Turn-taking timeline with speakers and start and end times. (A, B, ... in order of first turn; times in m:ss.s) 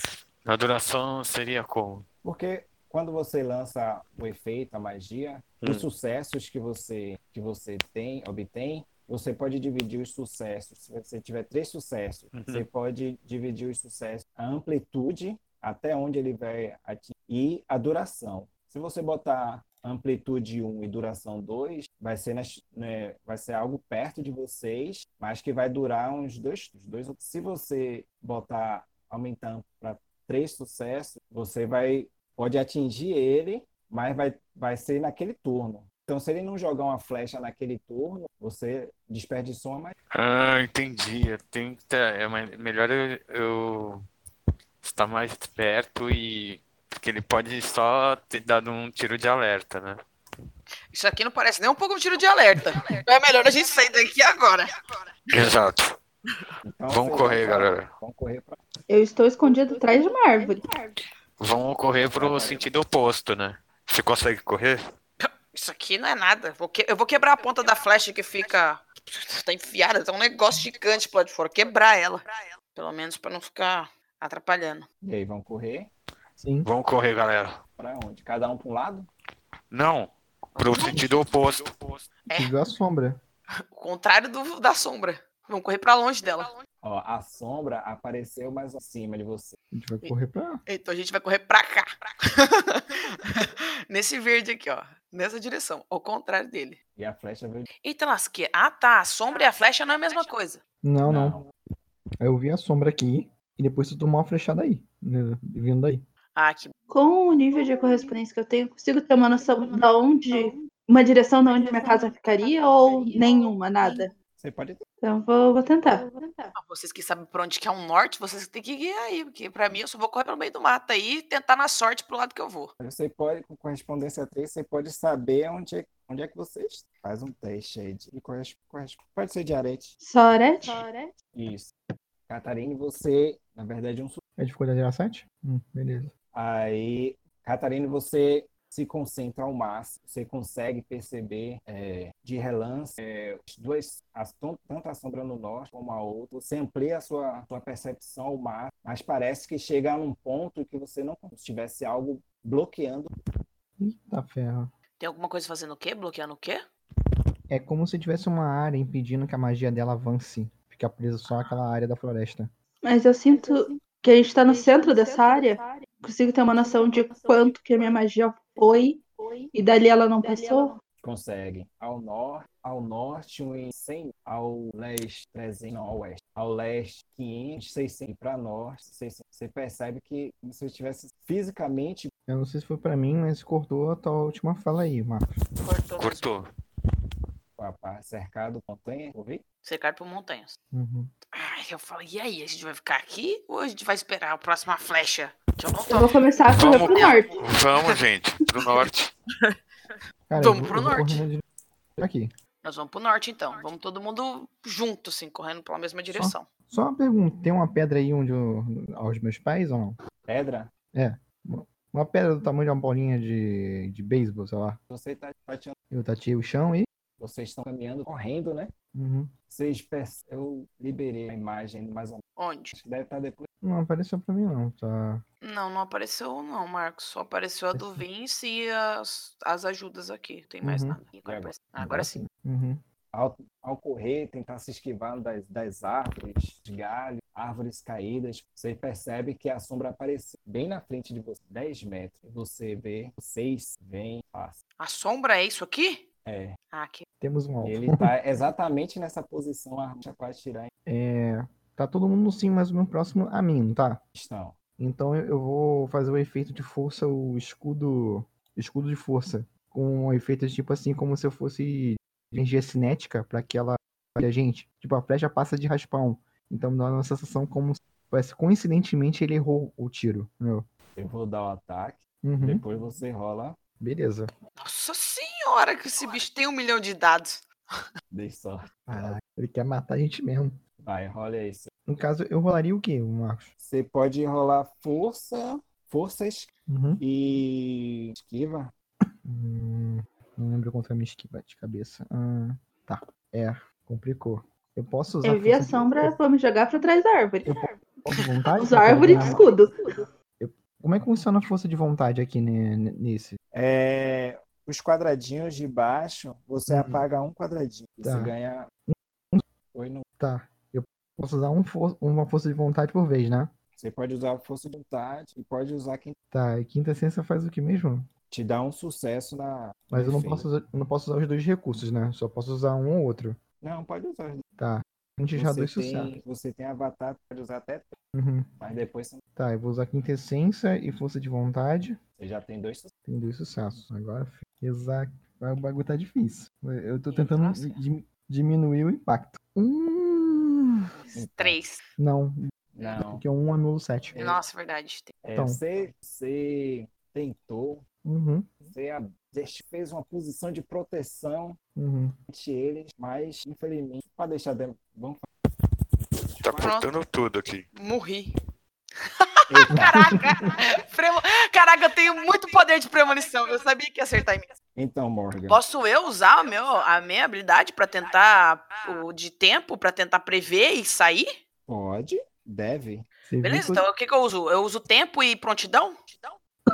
0:00.4-0:02.0 A
0:02.2-0:39.9 B
0:12.3-0:12.6 A
0:40.1-0:44.0 A
0:44.8-0:50.0 A
0:50.9-0:54.7 C
0:55.3-0:56.0 A
0:56.6-0:58.6 B
0:56.9-0:57.9 A
0:58.9-1:00.6 D
1:01.4-1:04.8 A
1:02.1-1:02.7 B
1:05.2-1:14.8 C
1:15.0-1:15.9 B
1:16.4-1:16.7 E
1:16.6-1:17.6 A
1:17.8-1:19.1 B
1:19.7-1:22.1 A
1:20.7-1:21.0 C
1:22.3-1:23.2 E
1:23.7-1:26.5 C
1:26.8-1:29.6 B
1:29.7-1:30.6 E
1:30.6-1:36.8 C
1:37.0-1:37.7 B
1:37.8-1:40.6 C
1:40.8-1:41.4 E
1:41.0-1:41.4 B
1:42.2-1:46.0 E
1:46.4-1:46.7 C
1:46.9-1:54.1 D
1:54.4-1:54.8 B
1:55.0-1:56.2 D
1:56.6-2:02.7 C
2:02.8-2:10.0 B
2:10.0-2:11.1 D
2:11.3-2:11.7 B
2:12.3-2:14.2 B
2:14.4-2:16.1 E
2:16.3-2:33.1 B
2:33.8-2:34.7 E
2:35.0-2:36.6 C
2:37.5-2:42.5 E
2:42.8-2:49.0 D
2:49.5-2:50.8 D
2:51.0-3:02.1 B
3:02.3-3:05.3 E
3:05.6-3:06.2 C
3:06.0-3:06.4 A
3:07.6-3:09.4 B
3:09.6-3:10.5 C
3:10.7-3:11.1 E
3:11.3-3:17.2 C
3:15.9-3:17.4 D
3:16.5-3:19.1 A
3:20.3-3:21.4 E
3:20.4-3:21.2 C
3:22.0-3:22.3 E
3:22.6-3:26.4 C
3:26.1-3:30.0 E
3:30.2-3:30.7 B
3:30.9-3:34.8 E
3:34.9-3:35.7 B
3:35.9-3:36.9 E
3:37.2-3:38.7 B
3:38.9-3:39.3 E
3:39.5-3:42.2 B
3:42.4-3:42.8 C
3:42.7-3:43.5 B
3:43.6-3:45.2 E
3:45.4-3:52.2 C
3:47.7-3:48.0 E
3:50.6-3:51.0 E
3:51.2-3:51.5 B
3:51.8-3:52.8 E
3:53.1-4:04.6 B
4:04.8-4:06.0 C
4:06.2-4:06.6 B
4:06.7-4:07.0 C
4:07.2-4:08.1 E
4:07.6-4:10.7 B
4:10.8-4:14.0 E
4:14.1-4:14.6 B
4:14.8-4:30.7 E
4:31.0-4:33.6 B
4:32.2-4:32.6 E
4:33.8-4:34.3 E
4:34.6-4:37.4 C
4:38.1-4:39.2 B
4:38.9-4:40.6 E
4:40.8-4:41.7 B
4:41.9-4:43.5 E
4:43.6-4:48.7 B
4:46.7-4:47.0 E
4:49.2-4:56.2 E
4:55.2-4:57.6 D
4:57.4-4:59.5 E
4:58.6-5:00.0 D
4:59.0-4:59.4 B
5:00.4-5:03.4 E
5:03.5-5:08.7 B
5:06.7-5:07.0 E
5:08.0-5:08.3 E
5:08.9-5:09.4 E
5:09.7-5:10.0 B
5:10.2-5:13.5 E
5:13.8-5:16.2 B
5:16.3-5:18.1 E
5:18.3-5:20.5 B
5:19.9-5:23.4 E
5:23.6-5:24.4 B
5:24.6-5:26.2 E
5:25.4-5:27.9 B
5:28.1-5:28.5 E
5:28.6-5:29.2 B
5:29.4-5:32.0 E
5:32.2-5:32.9 B
5:33.0-5:40.8 E
5:37.1-5:37.8 C
5:41.0-5:41.8 C
5:41.1-5:41.6 B
5:42.0-5:44.2 E
5:42.7-5:43.2 B
5:44.1-5:44.4 B
5:44.1-5:45.1 C
5:45.2-5:47.8 B
5:45.4-5:45.6 E
5:48.0-5:48.5 E
5:48.6-5:51.6 B
5:51.8-5:52.2 E
5:52.3-5:55.2 B
5:56.4-5:57.7 A
5:56.6-5:56.9 C
5:57.7-5:58.3 C
5:59.0-6:04.5 C
5:59.5-6:00.1 B
6:04.8-6:05.6 B
6:05.5-6:11.3 C
6:11.7-6:13.1 B
6:13.3-6:13.8 E
6:13.4-6:16.3 C